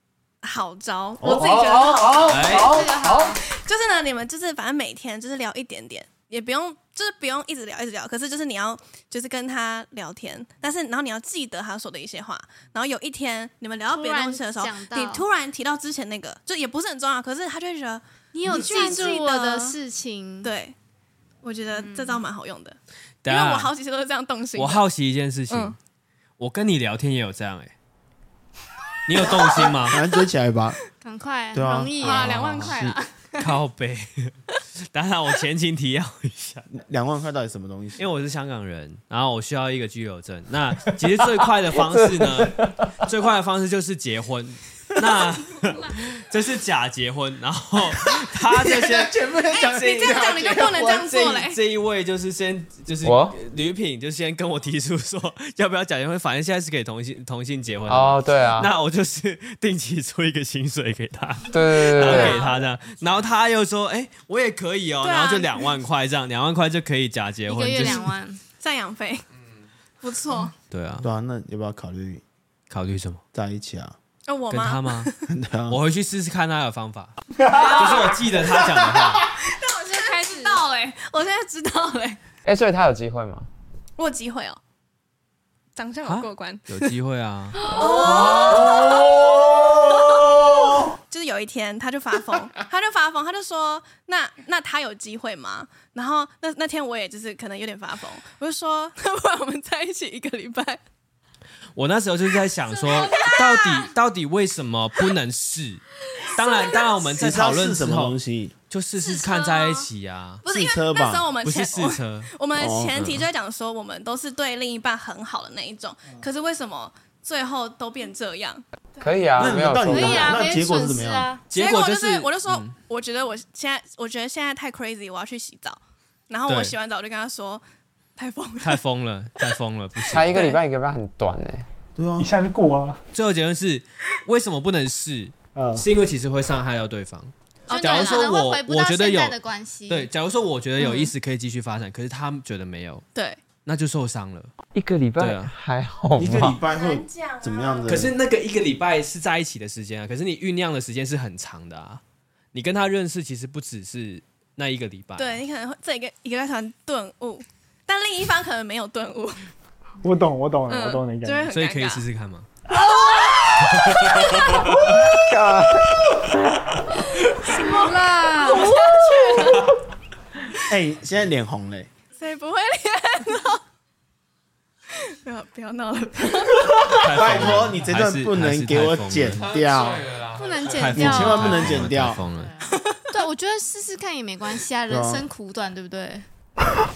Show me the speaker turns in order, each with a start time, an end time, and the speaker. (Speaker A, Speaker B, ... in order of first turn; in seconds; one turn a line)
Speaker A: 0.4-2.6
Speaker B: 1.2-1.5
Speaker C: 1.3-3.4
Speaker D: 2.3-2.8
Speaker E: 2.5-3.4
Speaker A: 3.3-19.8
Speaker E: 13.8-15.2
Speaker E: 18.3-20.5
Speaker A: 20.4-20.8
Speaker A: 21.4-24.8
Speaker E: 21.7-22.2
Speaker D: 23.2-23.7
Speaker D: 24.6-25.8
Speaker A: 25.5-25.8
Speaker D: 26.4-27.7
Speaker D: 29.1-30.0
Speaker A: 29.2-29.8
Speaker B: 29.2-30.9
Speaker E: 30.9-33.0
Speaker B: 31.5-32.1
Speaker A: 32.0-33.1
Speaker D: 32.0-34.3
Speaker D: 34.9-36.6
Speaker B: 36.7-38.0
Speaker D: 38.0-49.2
Speaker F: 41.2-43.1
Speaker B: 48.1-51.1
Speaker A: 49.5-51.6
Speaker D: 49.8-50.2
Speaker D: 51.0-68.2
Speaker F: 53.0-53.4
Speaker F: 57.9-58.7
Speaker F: 61.5-62.4
Speaker A: 62.0-62.6
Speaker E: 62.1-62.4
Speaker A: 65.0-65.7
Speaker E: 67.5-68.4
Speaker A: 68.6-69.2
Speaker A: 70.0-70.5
Speaker D: 70.7-71.1
Speaker B: 71.0-72.2
Speaker D: 72.7-73.2
Speaker B: 73.3-74.0
Speaker A: 74.3-75.3
Speaker D: 74.5-75.1
Speaker B: 75.3-75.8
Speaker D: 75.7-79.3
Speaker C: 77.4-77.8
Speaker A: 77.5-78.2
Speaker E: 77.5-77.9
Speaker A: 78.9-82.2
Speaker E: 79.9-80.8
Speaker F: 82.4-83.5
Speaker A: 84.0-84.6
Speaker A: 85.8-86.9
Speaker D: 86.0-87.6
Speaker A: 87.5-100.8
Speaker E: 87.6-89.1
Speaker B: 88.3-89.6
Speaker B: 90.3-90.5
Speaker D: 101.8-108.2
Speaker E: 102.8-103.9
Speaker E: 106.2-106.8
Speaker B: 107.2-108.5
Speaker D: 108.7-110.4
Speaker E: 109.0-109.9
Speaker A: 110.4-119.1
Speaker B: 110.5-111.3
Speaker D: 111.4-112.3
Speaker B: 112.5-112.9
Speaker D: 112.9-113.3
Speaker F: 119.0-120.4
Speaker B: 119.4-121.3
Speaker E: 119.7-121.4
Speaker D: 121.5-122.7
Speaker A: 121.5-127.6
Speaker D: 126.5-126.8
Speaker A: 128.2-128.8
Speaker D: 128.6-130.5
Speaker F: 130.1-131.7
Speaker B: 131.9-132.3
Speaker C: 132.2-133.0
Speaker D: 133.1-139.3
Speaker C: 135.5-135.8
Speaker A: 137.7-138.3
Speaker E: 137.7-140.1
Speaker D: 139.9-143.0
Speaker A: 143.1-143.4
Speaker D: 143.6-144.5
Speaker F: 144.7-146.6
Speaker D: 145.2-145.5
Speaker B: 146.2-148.2
Speaker A: 146.4-148.0
Speaker D: 147.8-152.0
Speaker D: 152.5-155.4
Speaker A: 155.2-159.5
Speaker C: 160.0-161.5
Speaker A: 160.7-162.0
Speaker D: 161.5-162.5
Speaker C: 162.8-163.9
Speaker A: 163.0-164.7
Speaker D: 163.6-165.0
Speaker C: 164.7-166.3
Speaker E: 167.4-168.8
Speaker A: 168.3-169.7
Speaker C: 168.7-169.6
Speaker B: 170.6-171.9
Speaker A: 172.2-173.6
Speaker A: 174.9-176.9
Speaker D: 176.9-179.4
Speaker B: 177.1-180.2
Speaker F: 179.3-181.1
Speaker E: 180.3-186.2
Speaker D: 180.7-182.5
Speaker B: 180.8-182.2
Speaker A: 182.6-183.2
Speaker B: 184.9-185.2